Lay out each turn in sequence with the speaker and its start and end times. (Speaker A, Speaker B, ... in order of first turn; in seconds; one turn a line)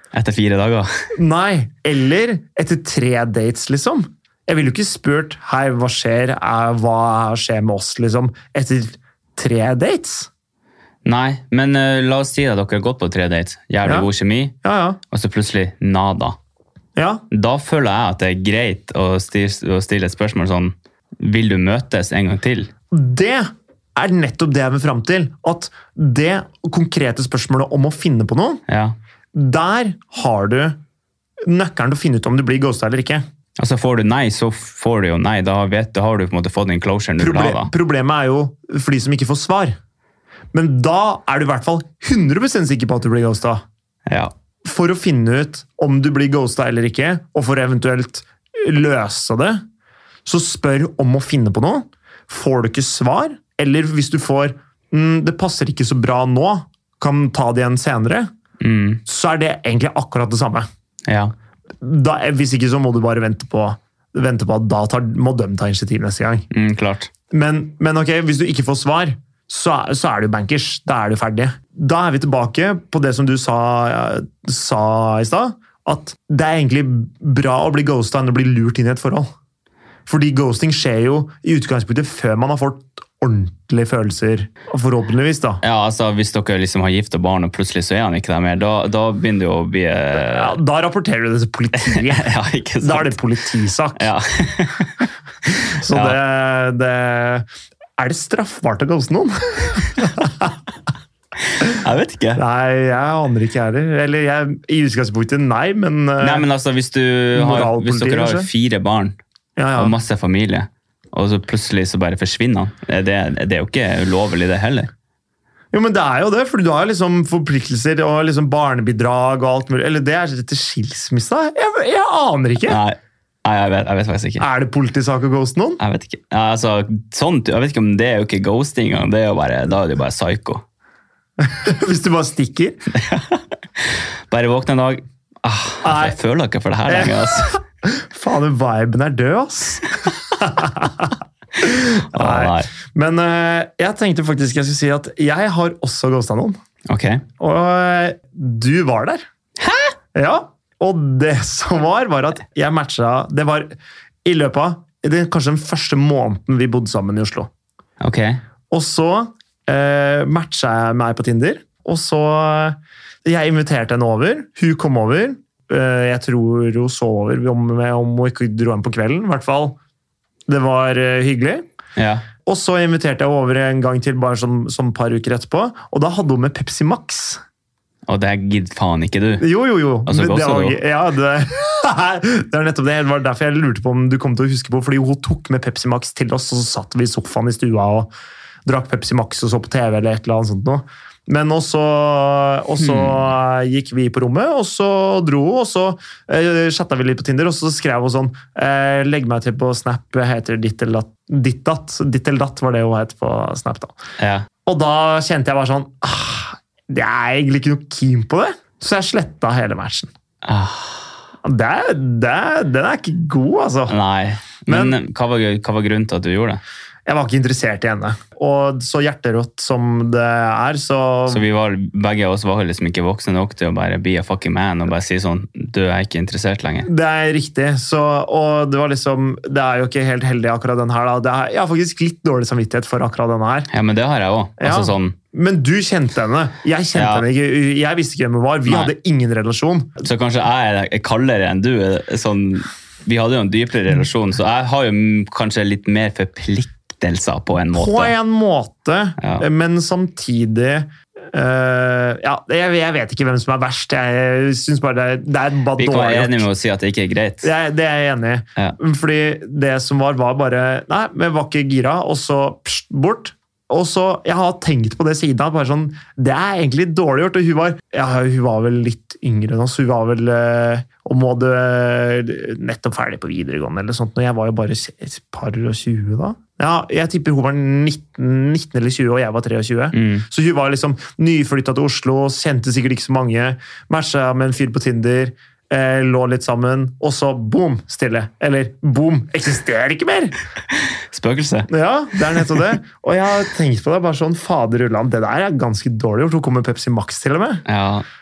Speaker A: 0.1-0.9
Speaker B: 1.1-10.3
Speaker A: 11.1-14.6
Speaker B: 14.6-15.0
Speaker A: 15.1-16.4
Speaker B: 17.0-17.2
Speaker A: 17.3-22.7
Speaker B: 22.9-28.6
Speaker A: 28.7-29.0
Speaker B: 29.3-30.8
Speaker B: 31.4-33.2
Speaker A: 33.6-37.7
Speaker B: 37.2-39.8
Speaker B: 40.5-43.6
Speaker A: 44.1-44.3
Speaker B: 44.6-49.6
Speaker B: 50.2-58.3
Speaker A: 58.6-59.0
Speaker B: 59.1-60.7
Speaker A: 61.1-61.3
Speaker B: 61.8-66.5
Speaker A: 66.5-67.1
Speaker B: 67.3-79.3
Speaker B: 80.1-85.6
Speaker A: 85.6-90.6
Speaker B: 90.1-92.3
Speaker A: 91.8-93.2
Speaker B: 92.8-94.1
Speaker A: 94.0-95.0
Speaker B: 95.7-100.6
Speaker A: 95.9-96.2
Speaker A: 101.5-102.4
Speaker B: 102.4-106.5
Speaker A: 106.2-109.2
Speaker B: 107.3-108.5
Speaker B: 109.6-110.0
Speaker A: 109.8-114.9
Speaker B: 115.7-122.8
Speaker A: 122.7-124.5
Speaker B: 124.4-125.8
Speaker A: 125.8-130.6
Speaker B: 131.4-132.8
Speaker A: 132.9-137.6
Speaker B: 135.8-136.2
Speaker B: 136.9-146.6
Speaker A: 142.1-142.7
Speaker A: 146.9-147.2
Speaker B: 147.4-149.2
Speaker A: 149.6-149.9
Speaker B: 150.1-153.7
Speaker B: 154.2-157.5
Speaker A: 158.0-158.4
Speaker B: 158.7-169.8
Speaker B: 170.5-171.7
Speaker A: 172.0-172.3
Speaker B: 172.4-177.4
Speaker A: 178.1-179.4
Speaker B: 179.4-188.1
Speaker A: 180.1-180.8
Speaker B: 188.7-204.0
Speaker A: 192.8-193.2
Speaker A: 204.2-204.5
Speaker B: 204.7-210.1
Speaker A: 210.4-211.1
Speaker B: 211.4-213.9
Speaker A: 213.9-216.6
Speaker B: 214.7-215.0
Speaker B: 217.1-221.4
Speaker A: 221.3-226.9
Speaker B: 226.8-233.7
Speaker A: 233.7-235.2
Speaker B: 234.6-239.9
Speaker A: 236.9-237.3
Speaker A: 238.7-238.9
Speaker A: 240.0-248.1
Speaker B: 247.7-256.5
Speaker A: 249.2-249.5
Speaker A: 255.8-257.5
Speaker B: 257.4-290.4
Speaker A: 279.9-280.3
Speaker A: 290.8-291.7
Speaker B: 291.7-297.6
Speaker A: 297.7-298.1